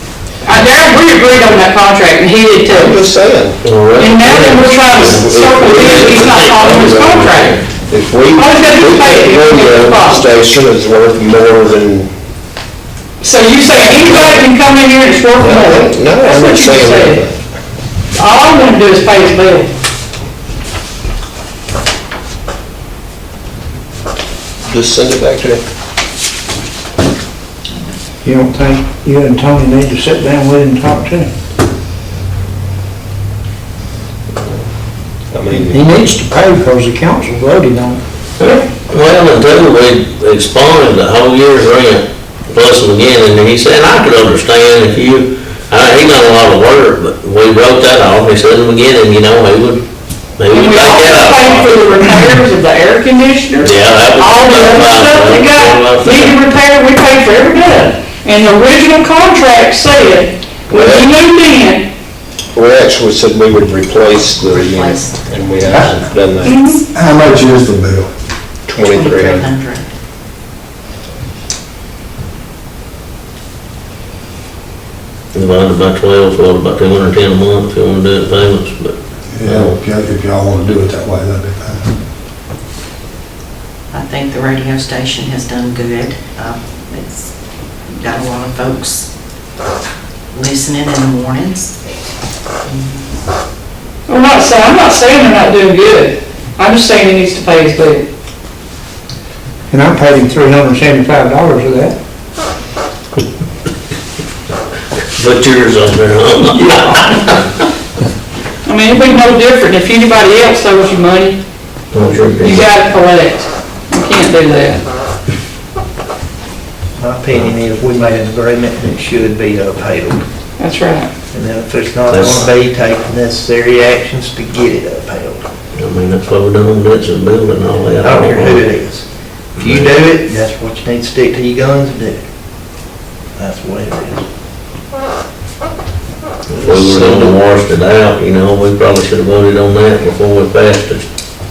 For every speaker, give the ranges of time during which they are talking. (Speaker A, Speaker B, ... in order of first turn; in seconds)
Speaker A: 0.4-2.9, 4.0-7.6, 8.3-10.2, 13.2-17.2, 18.1-19.7, 50.5-61.9, 66.4-66.8, 94.1-98.0, 108.6-111.4, 112.4-114.8, 120.6-121.1
Speaker B: 2.7-3.6, 4.9-12.1, 13.7-14.5, 15.4-17.4, 24.6-25.6, 35.3-36.0, 60.7-61.1, 62.5-66.6, 68.7-69.5
Speaker C: 3.6-6.4, 7.3-7.6, 38.4-49.8, 50.4-51.9, 53.6-56.4, 75.3-79.8, 105.2-107.5, 111.9-112.7, 122.1-122.5, 125.7-128.6, 129.6-129.9, 136.6-141.0
Speaker D: 28.2-31.3, 35.6-38.0, 99.7-101.9
Speaker E: 64.5-66.0, 68.9-69.8, 83.9-87.3, 87.9-89.1, 90.3-91.7
Speaker F: 66.9-68.1, 79.3-81.9
Speaker G: 117.0-120.2, 121.3-125.5, 128.0-129.0, 129.6-132.2, 133.4-134.2